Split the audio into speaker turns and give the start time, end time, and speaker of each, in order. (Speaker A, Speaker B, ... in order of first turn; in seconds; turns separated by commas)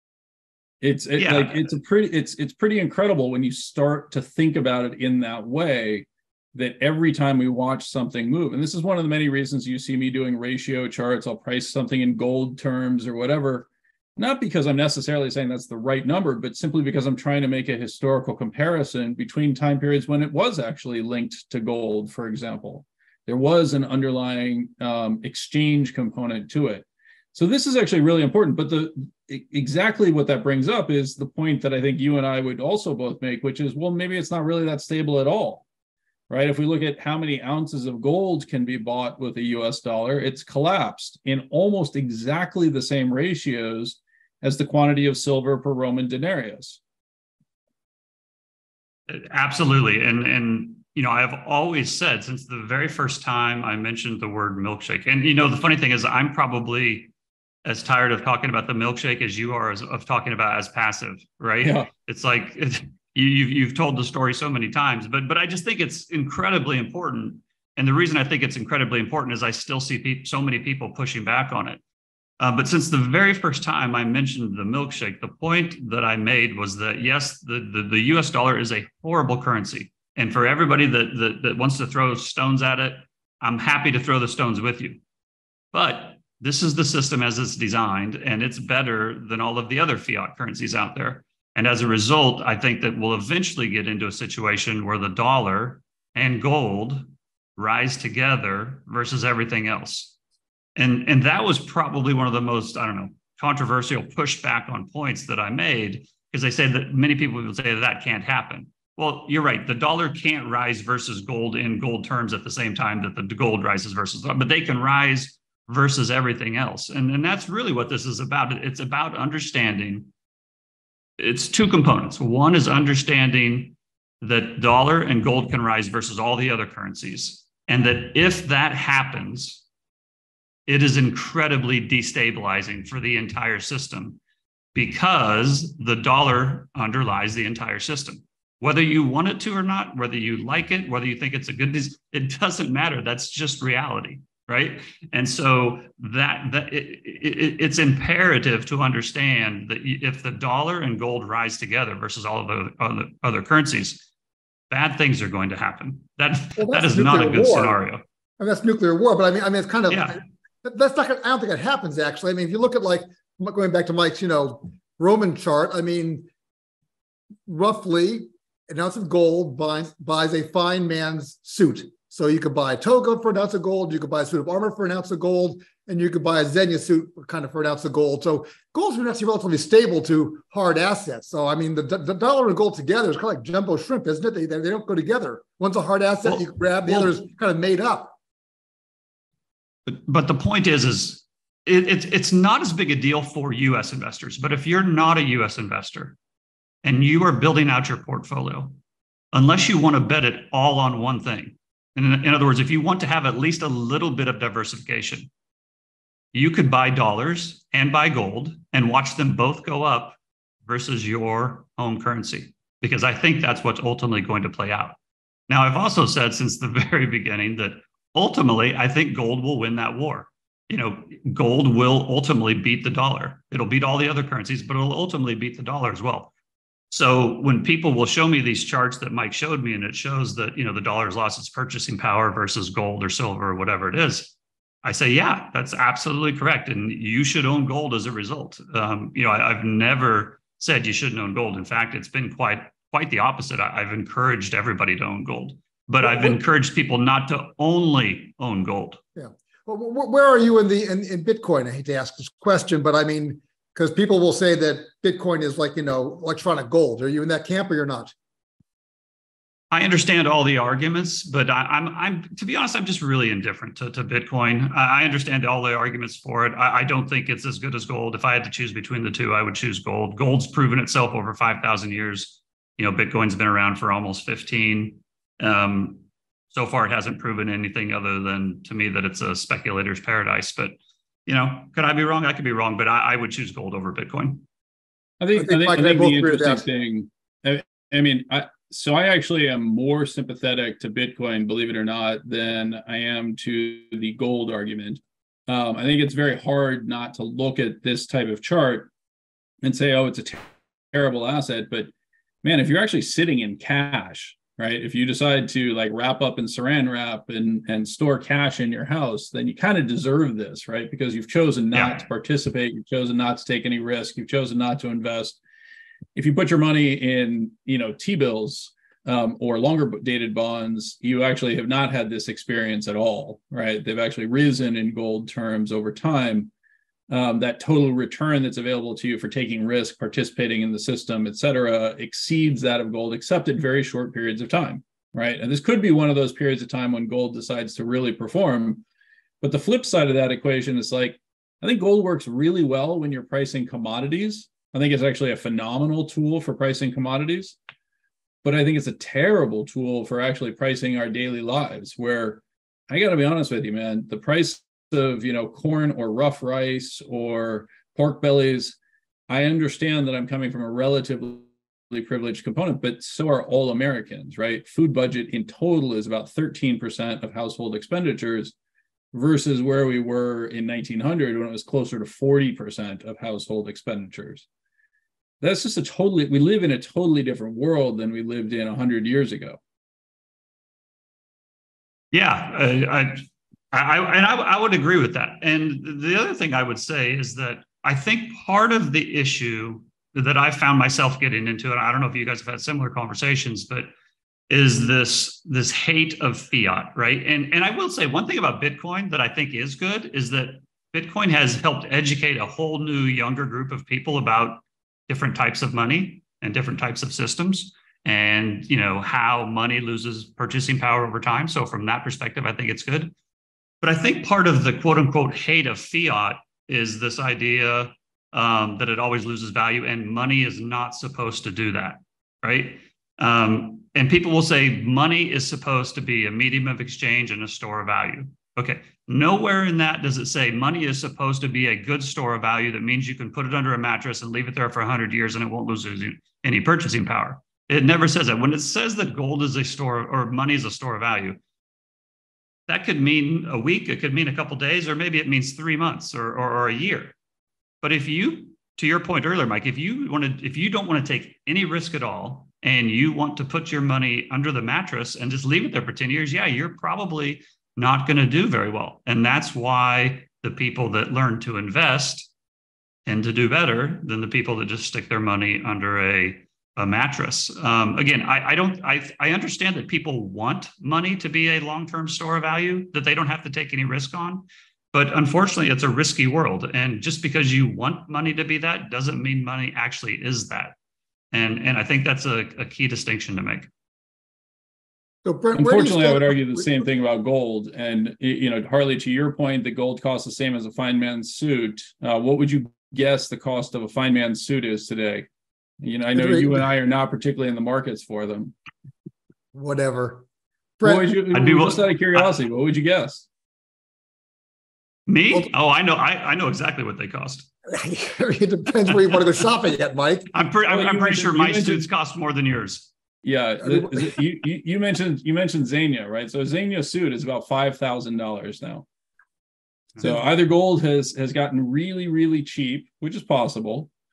Speaker A: 0.8-35.6, Speaker B: 1.2-1.7, Speaker A: 36.3-46.8, Speaker B: 49.1-57.1, Speaker B: 57.6-71.8, Speaker A: 61.6-61.9, Speaker B: 72.4-85.0, Speaker B: 85.7-100.1, Speaker B: 100.8-120.1, Speaker B: 121.2-129.6, Speaker B: 130.7-134.2, Speaker B: 134.7-154.1, Speaker B: 154.7-158.0, Speaker C: 156.6-157.8, Speaker C: 158.4-166.3, Speaker B: 159.9-160.2, Speaker C: 167.5-188.2, Speaker B: 186.2-187.2, Speaker B: 189.9-196.2, Speaker B: 196.8-198.8, Speaker B: 199.3-205.3, Speaker B: 206.3-215.0, Speaker B: 215.5-226.3, Speaker B: 226.9-249.0, Speaker C: 246.0-246.4, Speaker C: 249.2-258.1, Speaker B: 259.7-284.4, Speaker A: 285.2-298.9, Speaker C: 285.4-286.6, Speaker A: 299.6-301.9, Speaker A: 302.4-315.4, Speaker B: 311.7-312.0, Speaker A: 316.1-326.5, Speaker A: 327.1-338.8, Speaker A: 339.4-347.6, Speaker A: 348.4-358.8, Speaker A: 359.3-368.6, Speaker A: 369.1-374.4, Speaker A: 375.4-379.6, Speaker B: 382.1-393.9, Speaker B: 394.5-413.1, Speaker B: 413.8-441.4, Speaker B: 442.7-447.2, Speaker B: 447.8-462.3, Speaker B: 463.1-480.8, Speaker B: 481.3-483.7, Speaker C: 485.2-486.8, Speaker A: 485.5-495.3, Speaker A: 495.8-498.5, Speaker C: 496.1-496.6, Speaker C: 499.5-500.3, Speaker C: 500.8-501.2, Speaker A: 500.8-503.3, Speaker B: 501.3-502.3, Speaker B: 505.1-507.5, Speaker C: 507.7-510.3, Speaker B: 510.3-512.9, Speaker A: 510.7-511.9, Speaker A: 513.2-518.9, Speaker C: 513.6-514.1, Speaker A: 520.0-523.9